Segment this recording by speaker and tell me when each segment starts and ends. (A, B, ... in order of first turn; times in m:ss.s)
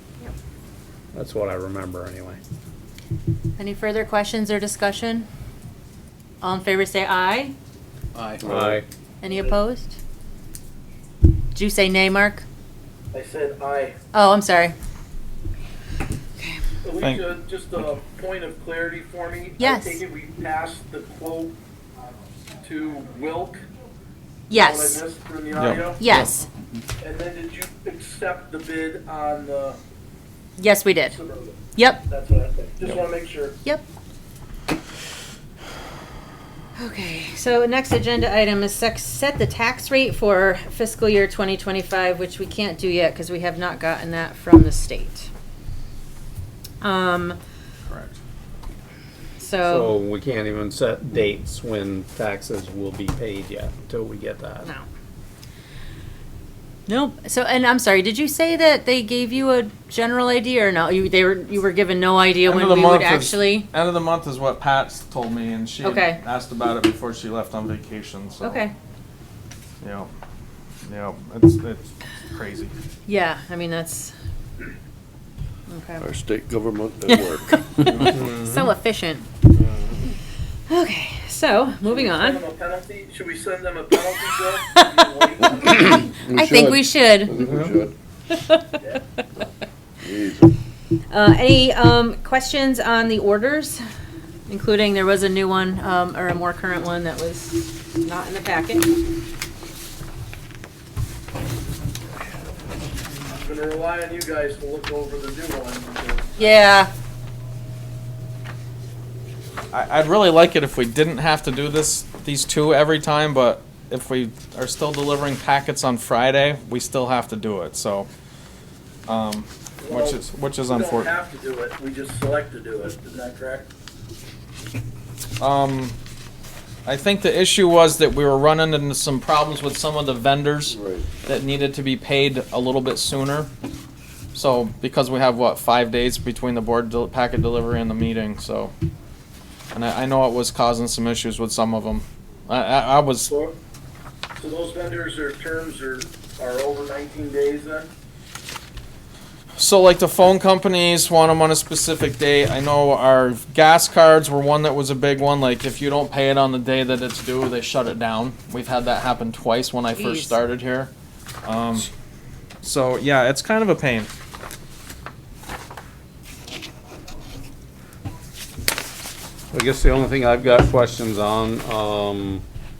0:01.1-0:02.4 A
0:03.6-0:05.3 B
0:06.4-0:07.5 B
0:08.4-0:08.8 C
0:08.4-0:08.8 A
0:09.2-0:10.0 B
0:11.5-0:12.4 B
0:13.1-0:14.0 D
0:14.1-0:14.7 B
0:16.8-0:21.5 D
0:17.0-0:17.2 E
0:19.6-0:20.0 B
0:22.6-0:23.6 D
0:24.5-0:25.0 B
0:24.5-0:26.0 D
0:25.5-0:26.2 E
0:26.0-0:26.5 B
0:27.0-0:29.8 D
0:30.6-0:31.2 B
0:31.1-0:33.6 D
0:31.7-0:32.0 B
0:36.8-0:45.3 B
0:46.8-0:47.4 B
0:47.9-0:48.2 E
0:49.4-0:49.9 B
0:49.6-0:54.7 A
0:56.9-1:03.7 B
1:02.4-1:08.6 E
1:05.8-1:06.2 B
1:08.4-1:08.7 B
1:09.8-1:10.1 E
1:10.8-1:12.7 E
1:13.1-1:14.1 B
1:15.7-1:16.1 B
1:16.0-1:18.1 C
1:17.1-1:19.3 B
1:17.9-1:18.6 A
1:20.7-1:22.4 B
1:21.8-1:25.9 D
1:24.7-1:25.0 B
1:25.8-1:27.9 C
1:25.9-1:27.4 B
1:28.3-1:28.8 B
1:30.0-1:30.5 C
1:31.1-1:33.8 B
1:34.5-1:38.9 B
1:43.3-1:46.7 D
1:46.4-1:46.9 B
1:49.7-1:58.1 E
1:59.1-2:01.1 E
1:59.8-2:03.7 D
2:05.4-2:06.0 E
2:06.8-2:13.5 E
2:10.7-2:11.0 C
2:14.3-2:18.7 E
2:19.7-2:23.3 E
2:23.3-2:23.6 D
2:24.4-2:27.9 D
2:29.6-2:40.9 E
2:39.9-2:40.4 B
2:41.4-2:41.9 E
2:42.6-2:44.1 E
2:49.5-2:52.4 A